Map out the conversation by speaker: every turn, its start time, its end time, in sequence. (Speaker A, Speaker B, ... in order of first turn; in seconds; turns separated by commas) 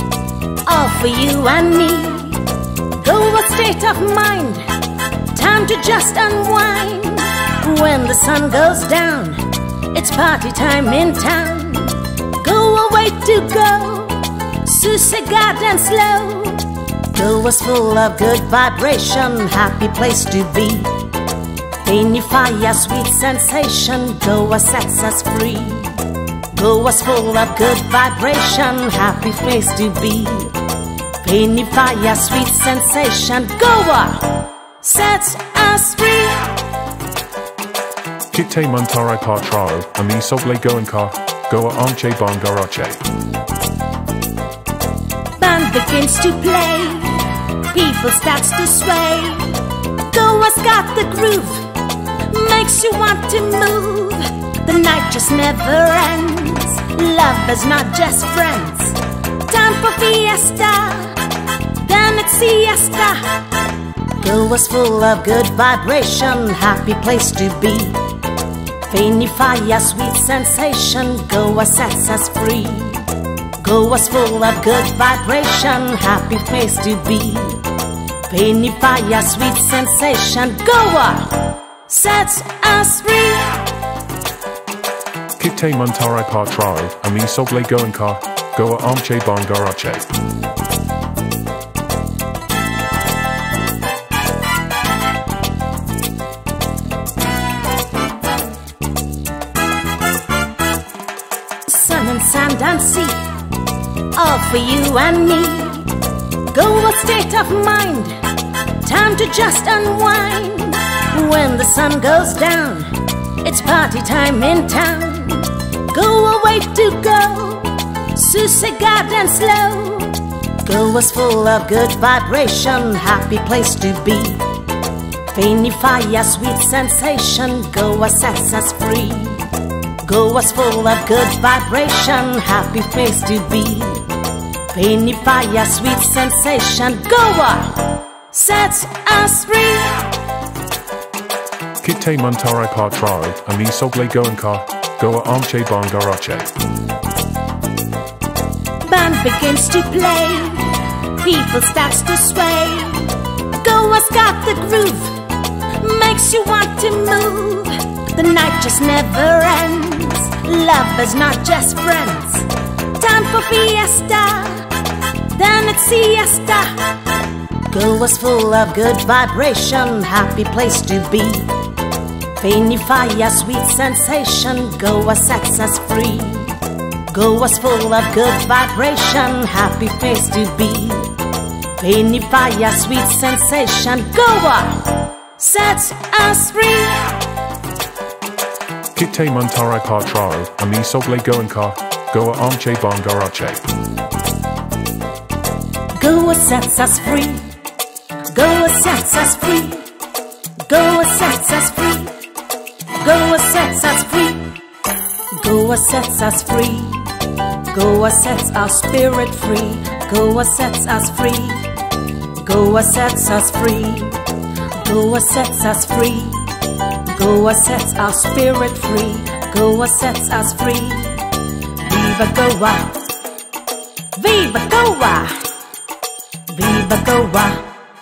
Speaker A: 0.6-4.7, Speaker A: 5.3-21.1, Speaker A: 21.8-30.6, Speaker A: 31.2-36.6, Speaker B: 38.3-43.0, Speaker A: 45.4-61.2, Speaker A: 61.7-63.4, Speaker A: 64.2-68.1, Speaker A: 68.9-77.7, Speaker A: 78.3-83.7, Speaker B: 85.4-90.1, Speaker A: 101.7-103.3, Speaker A: 104.1-106.0, Speaker A: 106.5-108.2, Speaker A: 108.8-124.5, Speaker A: 125.3-134.1, Speaker A: 134.7-140.1, Speaker B: 141.8-146.5, Speaker A: 148.8-155.2, Speaker A: 155.8-164.7, Speaker A: 165.3-166.9, Speaker A: 167.7-171.5, Speaker A: 172.4-181.2, Speaker A: 181.7-187.2, Speaker B: 188.9-193.6, Speaker A: 196.0-197.5, Speaker A: 198.3-199.9, Speaker A: 200.7-202.2, Speaker A: 203.0-204.5, Speaker A: 205.3-211.8, Speaker A: 212.4-223.1, Speaker A: 224.2-225.5, Speaker A: 226.5-227.7